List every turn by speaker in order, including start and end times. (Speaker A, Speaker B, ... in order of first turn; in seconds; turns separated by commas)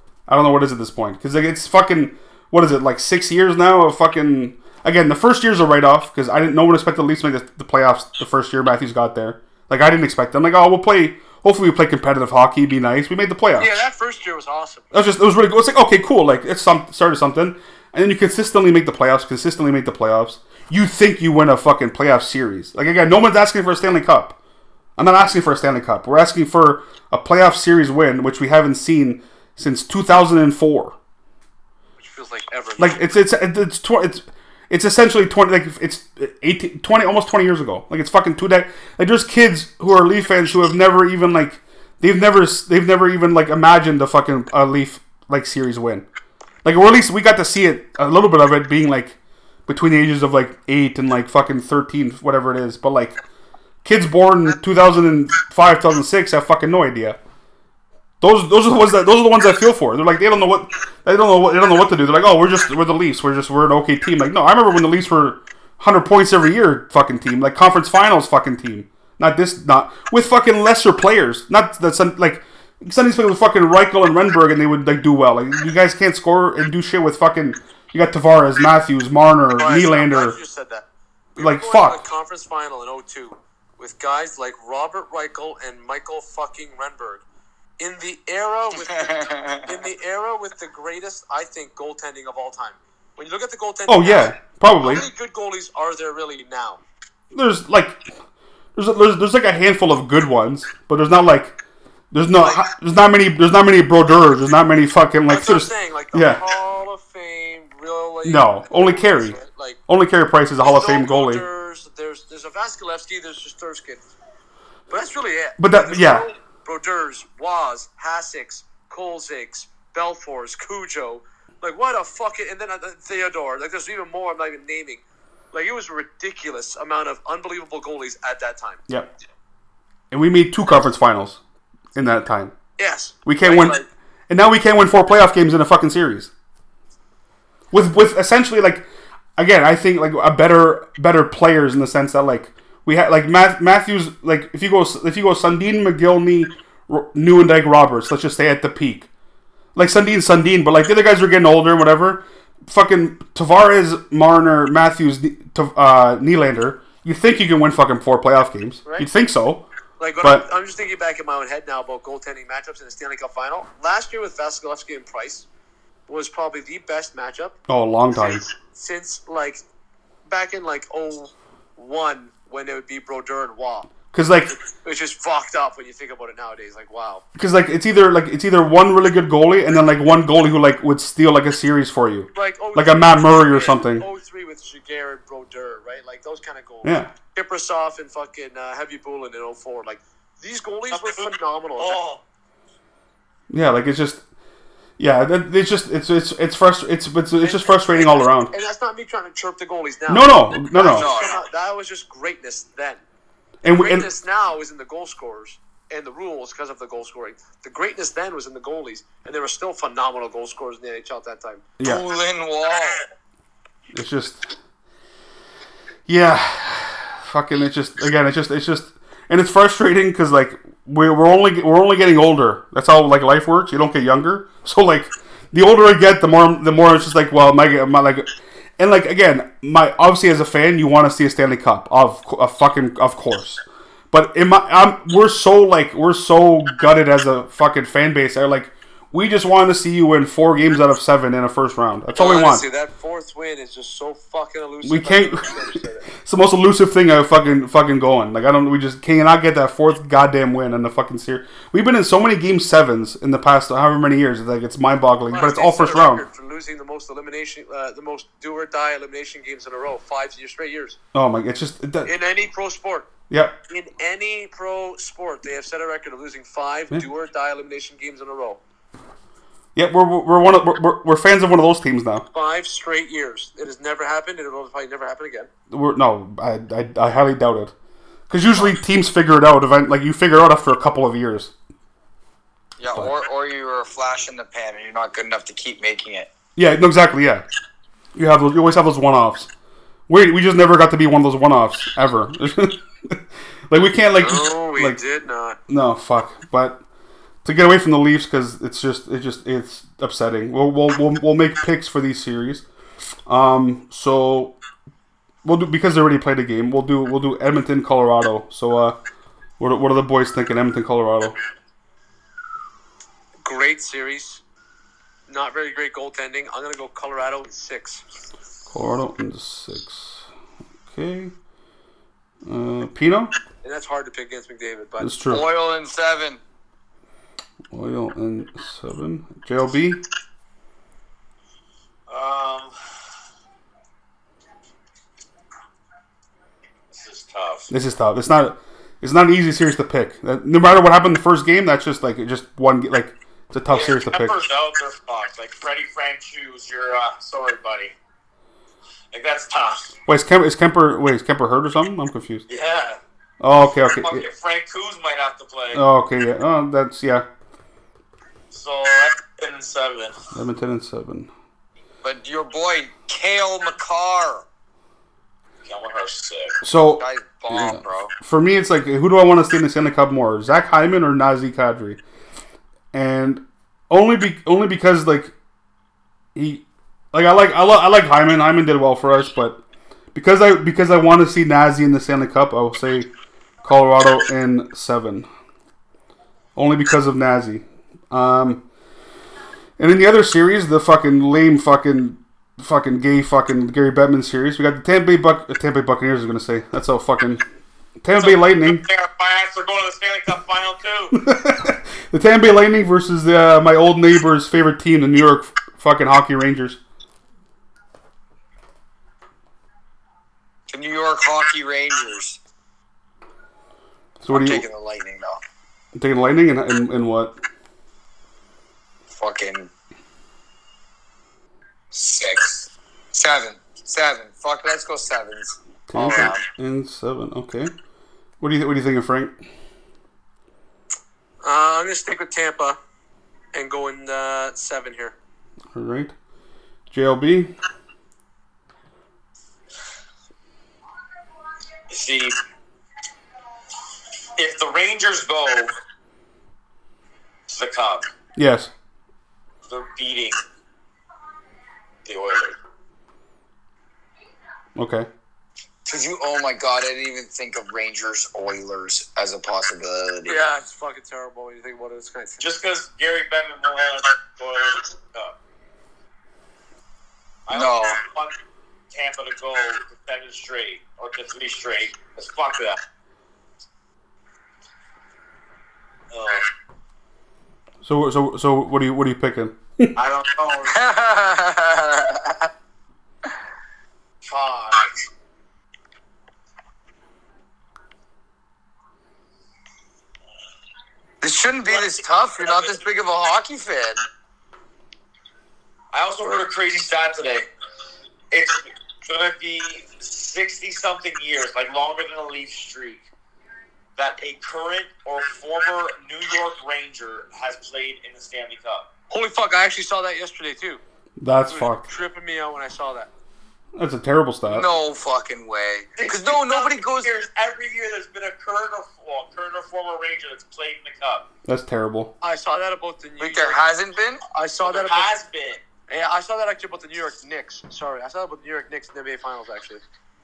Speaker A: 0.3-13.8, Speaker B: 13.6-14.9, Speaker A: 14.9-24.4, Speaker A: 25.0-30.9, Speaker B: 32.0-33.0, Speaker A: 32.8-46.0, Speaker A: 46.6-53.2, Speaker A: 53.8-57.2, Speaker A: 58.2-80.4, Speaker B: 79.5-80.8, Speaker B: 81.4-87.2, Speaker A: 81.4-82.0, Speaker B: 87.8-96.8, Speaker C: 88.9-89.7, Speaker A: 93.9-95.1, Speaker A: 97.3-98.0, Speaker A: 98.8-101.6, Speaker A: 102.1-106.4, Speaker B: 102.3-102.7, Speaker B: 105.3-109.8, Speaker A: 108.2-109.4, Speaker A: 109.9-111.5, Speaker B: 110.6-114.0, Speaker B: 114.9-128.8, Speaker A: 115.6-116.3, Speaker A: 130.1-131.4, Speaker A: 131.9-132.5, Speaker B: 132.8-133.9, Speaker A: 133.3-136.3, Speaker A: 137.7-149.1, Speaker A: 149.8-159.7, Speaker B: 160.0-165.5, Speaker B: 166.1-167.6, Speaker A: 167.7-168.4, Speaker B: 168.2-169.6, Speaker B: 170.3-173.9, Speaker A: 174.1-174.5, Speaker B: 174.5-177.2, Speaker A: 177.4-184.1, Speaker B: 182.3-192.0, Speaker A: 186.8-187.1, Speaker D: 190.9-192.2, Speaker A: 193.5-194.2, Speaker A: 195.0-198.5, Speaker B: 197.4-203.0, Speaker A: 200.1-201.1, Speaker C: 200.9-201.4, Speaker A: 203.6-204.1, Speaker B: 203.7-211.6, Speaker C: 211.8-213.1, Speaker A: 213.9-214.4, Speaker A: 216.1-228.3, Speaker A: 228.8-242.7, Speaker B: 242.1-246.1, Speaker A: 244.8-245.6, Speaker A: 246.2-256.2, Speaker B: 255.3-261.0, Speaker A: 261.1-262.1, Speaker B: 262.1-263.1, Speaker A: 263.3-263.6, Speaker B: 263.7-268.6, Speaker A: 269.8-272.3, Speaker B: 272.3-275.5, Speaker A: 275.7-277.7, Speaker A: 278.3-281.5, Speaker C: 282.8-286.3, Speaker A: 286.6-287.4, Speaker A: 288.1-289.5, Speaker A: 290.1-295.0, Speaker B: 294.2-295.6, Speaker A: 295.7-296.8, Speaker A: 297.4-302.6, Speaker A: 303.3-304.6, Speaker A: 305.4-309.0, Speaker A: 309.6-311.4, Speaker B: 313.4-314.4, Speaker B: 315.3-318.0, Speaker A: 318.7-320.2, Speaker A: 320.9-321.3, Speaker A: 322.5-323.3, Speaker B: 323.6-325.1, Speaker A: 325.0-325.4, Speaker C: 325.3-326.4, Speaker A: 327.7-330.0, Speaker D: 332.1-332.7, Speaker D: 336.9-337.7, Speaker A: 337.7-344.4, Speaker D: 343.7-347.9, Speaker D: 349.1-349.9, Speaker A: 350.1-352.4, Speaker D: 352.5-353.0, Speaker A: 353.4-354.3, Speaker D: 354.0-355.8, Speaker A: 355.7-357.3, Speaker D: 358.5-360.1, Speaker A: 360.3-361.3, Speaker C: 362.0-364.4, Speaker D: 365.6-366.5, Speaker A: 366.6-372.0, Speaker C: 367.0-368.1, Speaker A: 372.9-375.3, Speaker A: 376.4-379.6, Speaker A: 380.1-383.1, Speaker A: 383.6-385.3, Speaker A: 386.6-388.6, Speaker A: 389.8-397.4, Speaker A: 398.0-398.8, Speaker D: 398.2-401.2, Speaker A: 401.1-406.8, Speaker C: 410.7-412.4, Speaker A: 414.2-414.6, Speaker C: 414.3-415.4, Speaker A: 415.9-417.4, Speaker C: 419.1-419.7, Speaker C: 421.9-426.4, Speaker A: 425.9-427.7, Speaker A: 428.4-429.3, Speaker B: 431.4-432.8, Speaker B: 433.5-435.1, Speaker A: 435.7-436.1, Speaker A: 436.9-437.5, Speaker D: 441.9-442.4, Speaker D: 444.4-445.7, Speaker D: 447.5-448.1, Speaker A: 448.4-448.7, Speaker D: 449.7-450.4, Speaker D: 452.1-452.6, Speaker A: 454.8-455.1, Speaker C: 455.9-460.4, Speaker B: 460.3-462.4, Speaker D: 462.4-465.4, Speaker D: 467.5-468.4, Speaker C: 467.5-468.0, Speaker D: 468.9-472.8, Speaker D: 476.1-476.5, Speaker A: 477.8-479.9, Speaker D: 480.0-480.8, Speaker C: 480.7-482.5, Speaker D: 484.2-484.9, Speaker C: 491.2-494.0, Speaker D: 491.7-492.8, Speaker D: 495.9-497.5, Speaker D: 498.3-503.1, Speaker D: 504.0-508.9, Speaker B: 509.1-510.8, Speaker A: 511.2-511.9, Speaker B: 511.5-513.1, Speaker A: 513.8-514.7, Speaker C: 514.5-517.2, Speaker D: 516.0-521.3, Speaker A: 521.5-522.1, Speaker B: 522.2-523.6, Speaker C: 523.2-524.2, Speaker B: 524.3-525.1, Speaker D: 524.6-525.6, Speaker B: 525.9-529.8